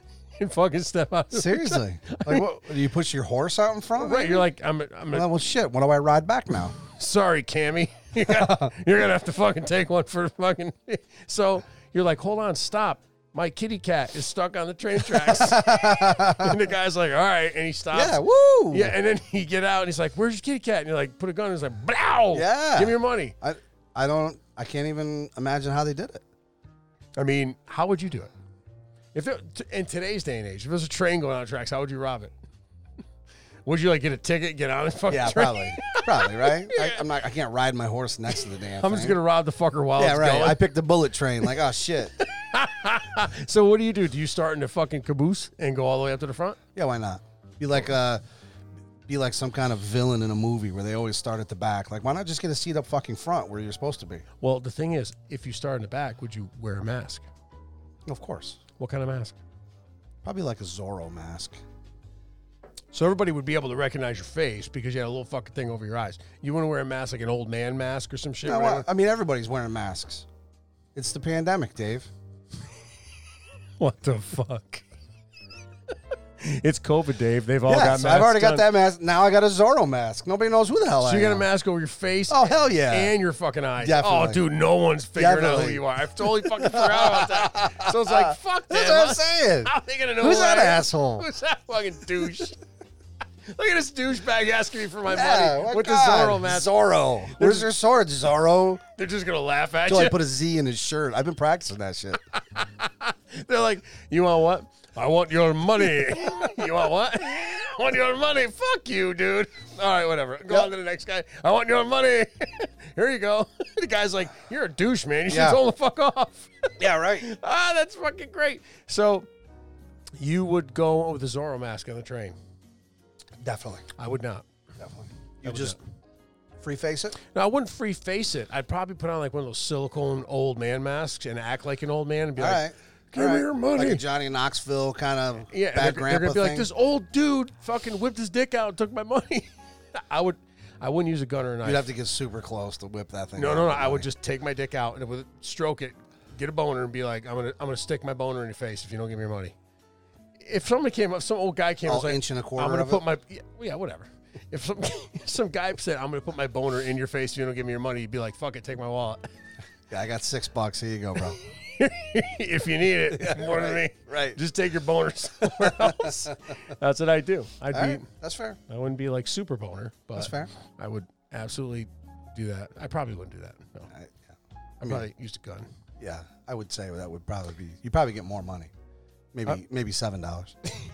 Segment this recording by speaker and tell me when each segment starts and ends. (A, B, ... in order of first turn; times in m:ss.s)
0:00.4-0:02.4 A
0:01.3-0:04.5 B
0:04.0-0:05.3 A
0:05.1-0:06.8 B
0:06.8-0:18.2 A
0:08.2-0:08.7 B
0:15.0-0:16.6 B
0:17.9-0:18.9 B
0:18.7-0:23.3 A
0:22.3-0:26.2 B
0:27.2-0:28.3 A
0:29.1-0:32.3 A
0:33.6-0:37.0 A
0:35.1-0:39.2 B
0:38.7-0:40.6 A
0:40.0-0:42.2 B
0:42.2-0:46.6 A
0:46.7-0:48.2 B
0:49.1-0:54.2 B
0:54.4-0:57.2 A
0:58.0-0:58.6 B
0:58.8-0:59.4 A
1:00.2-1:01.6 B
1:02.9-1:08.9 A
1:08.4-1:10.3 B
1:10.9-1:12.1 B
1:13.8-1:14.8 A
1:16.4-1:18.6 A
1:17.6-1:21.5 B
1:21.0-1:32.6 A
1:22.3-1:23.1 B
1:23.8-1:24.4 B
1:25.2-1:31.3 B
1:33.5-1:36.7 A
1:35.0-1:38.8 B
1:37.3-1:37.7 A
1:39.0-1:40.2 A
1:39.8-1:42.2 B
1:42.3-1:59.3 A
1:55.3-1:55.6 B
1:56.8-1:57.3 B
2:00.2-2:02.4 A
2:03.4-2:03.9 B
2:04.0-2:04.4 A
2:04.8-2:05.8 B
2:05.4-2:05.8 A
2:06.6-2:07.2 B
2:07.3-2:14.0 A
2:12.4-2:16.7 B
2:15.5-2:21.9 A
2:21.6-2:24.1 B
2:23.4-2:29.6 A
2:30.4-2:39.2 A
2:31.8-2:33.0 B
2:39.9-2:41.4 B
2:41.4-2:48.1 A
2:43.1-2:44.4 B
2:45.4-2:46.6 B
2:47.7-2:48.6 B
2:48.7-2:53.9 A
2:50.2-2:50.5 B
2:53.9-2:55.0 B
2:54.8-2:55.7 A
2:56.0-2:58.7 B
2:59.3-3:00.6 B